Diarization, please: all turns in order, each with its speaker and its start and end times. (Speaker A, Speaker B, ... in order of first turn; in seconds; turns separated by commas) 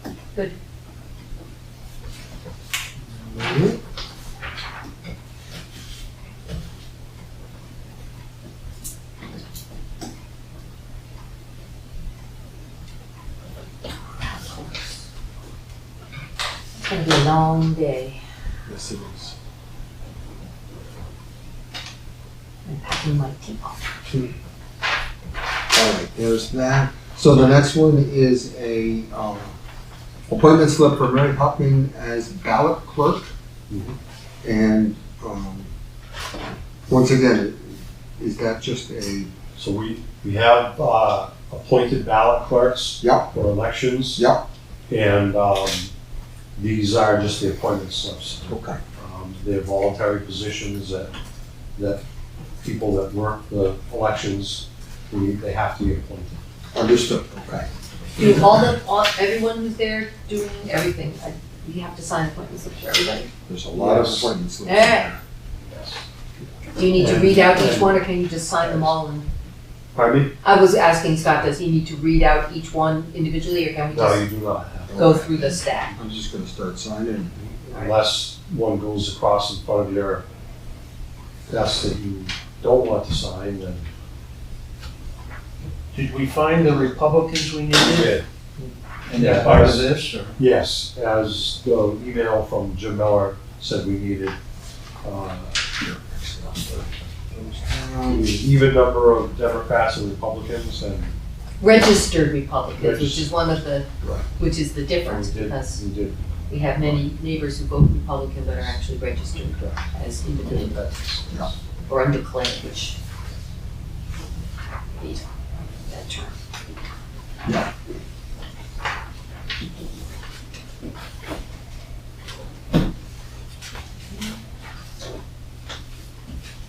Speaker A: 3.3-3.8, Speaker B: 14.2-15.0, Speaker B: 16.8-18.2, Speaker A: 18.7-19.4, Speaker B: 22.7-23.8, Speaker A: 24.1-24.3, Speaker A: 25.7-29.5, Speaker A: 30.3-33.3, Speaker C: 33.7-34.0, Speaker A: 34.4-35.7, Speaker A: 36.9-39.3, Speaker C: 39.5-44.2, Speaker A: 43.0-43.3, Speaker A: 44.2-44.4, Speaker C: 44.9-45.9, Speaker C: 46.6-51.1, Speaker A: 48.5-48.8, Speaker C: 52.6-56.4, Speaker A: 56.7-57.7, Speaker B: 58.2-63.3, Speaker A: 63.5-65.2, Speaker C: 63.7-64.3, Speaker B: 64.6-65.1, Speaker C: 65.7-66.0, Speaker B: 66.8-69.3, Speaker C: 66.9-68.0, Speaker C: 68.6-68.9, Speaker C: 69.9-70.3, Speaker B: 70.4-74.2, Speaker C: 73.9-74.9, Speaker A: 74.9-77.5, Speaker B: 74.9-75.9, Speaker C: 77.4-80.2, Speaker C: 81.5-83.9, Speaker D: 85.9-88.2, Speaker C: 87.8-88.2, Speaker D: 89.1-90.3, Speaker C: 89.1-94.4, Speaker C: 95.0-95.7, Speaker A: 95.8-96.6, Speaker C: 96.5-96.9, Speaker A: 97.3-98.4, Speaker C: 98.0-101.2, Speaker B: 101.6-105.8, Speaker C: 102.8-103.3, Speaker C: 105.0-107.0, Speaker B: 106.5-110.8, Speaker C: 109.5-109.8, Speaker C: 110.4-111.5, Speaker B: 111.9-113.0, Speaker B: 115.0-116.4